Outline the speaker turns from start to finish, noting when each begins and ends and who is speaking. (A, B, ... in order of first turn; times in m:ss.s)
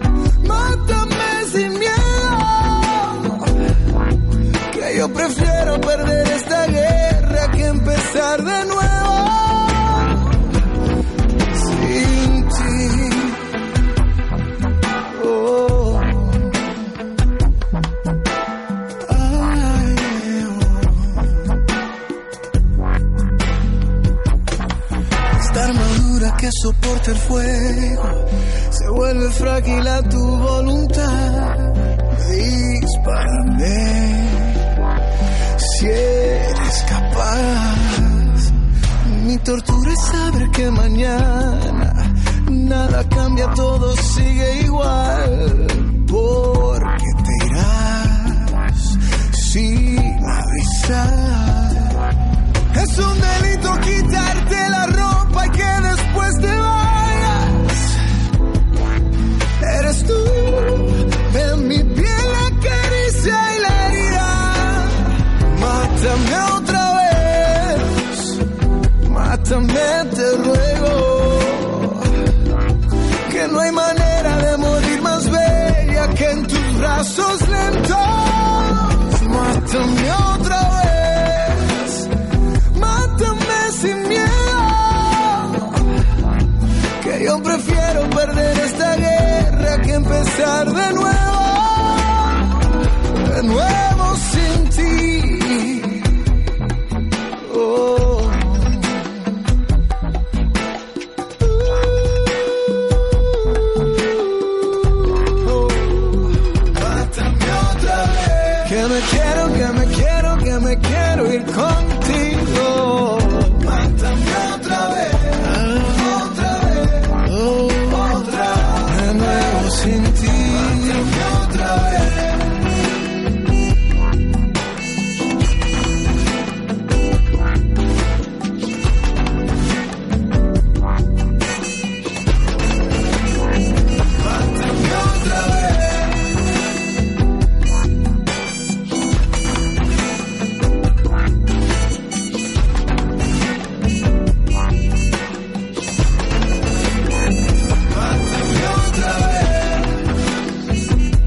0:00.4-0:03.5 A
0:04.7-0:10.4 A
0:11.5-0:13.4 A
0:15.1-0:16.7 A
0:19.0-0:21.5 A
0:25.3-0:34.7 A
0:35.6-0:38.5 A
0:39.0-0:52.0 A
0:52.7-0:58.0 A
0:59.6-1:08.4 A
1:09.0-1:12.1 A
1:13.3-1:22.1 A
1:22.7-1:25.8 A
1:27.0-1:36.1 A
1:37.4-1:39.2 A
1:45.3-2:02.5 A
2:14.2-2:16.2 A
2:27.9-2:30.0 A